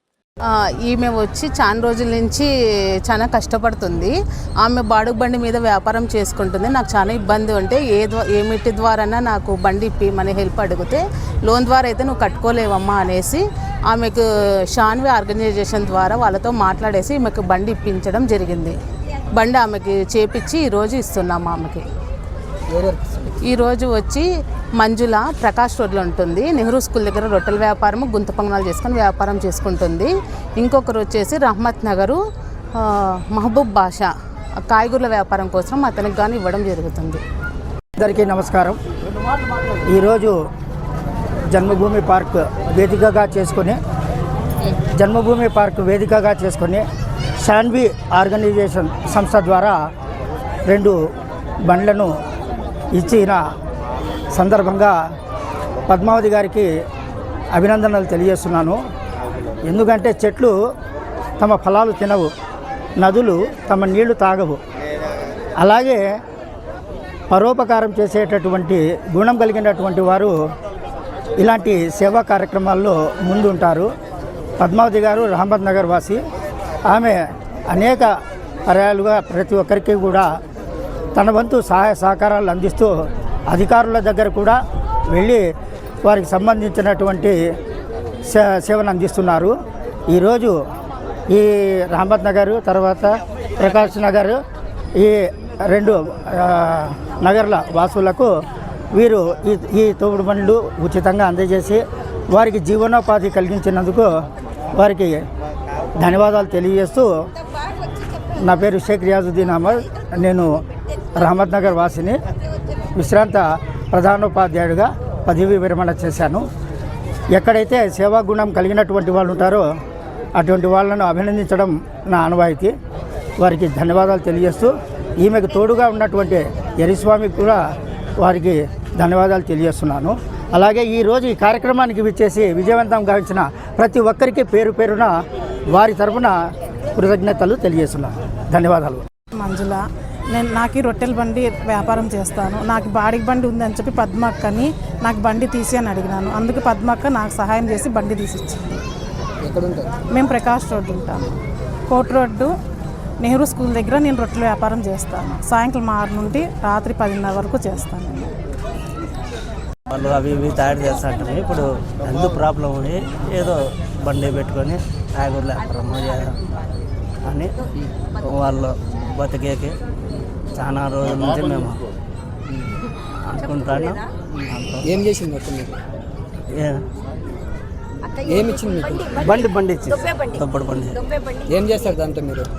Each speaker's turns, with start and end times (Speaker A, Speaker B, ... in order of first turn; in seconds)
Speaker A: 0.5-2.5, 3.0-18.8, 19.4-21.8, 23.4-32.2, 32.7-37.2
Speaker B: 22.7-23.3, 149.4-150.0, 174.8-175.8, 178.2-179.2, 181.4-182.5
Speaker C: 38.0-38.8, 39.8-40.4, 41.5-43.8, 44.8-46.8, 47.4-49.8, 50.7-51.0, 51.6-52.1, 52.9-53.4, 54.3-55.0, 55.9-56.7, 57.5-58.8, 59.6-60.5, 61.4-62.3, 63.0-64.6, 65.6-66.2, 67.3-70.3, 71.4-73.9, 74.6-76.2, 76.9-78.1, 78.7-80.3, 81.1-82.9, 83.5-84.6, 85.1-85.5, 86.0-87.4, 88.3-89.5, 90.1-90.6, 91.3-94.4, 95.0-98.3, 99.0-104.1, 104.7-105.2, 106.0-107.1, 108.3-110.5, 111.1-112.2, 113.0-116.4, 117.3-119.7, 120.4-122.7, 123.4-127.6, 128.2-135.1, 135.7-136.3, 136.9-139.0
Speaker D: 139.4-148.8, 150.1-151.3, 151.9-152.5, 153.2-158.3
Speaker E: 159.9-166.4, 167.2-167.5, 168.2-169.7, 170.5-171.8, 173.2-174.9, 176.5-176.8, 179.2-181.0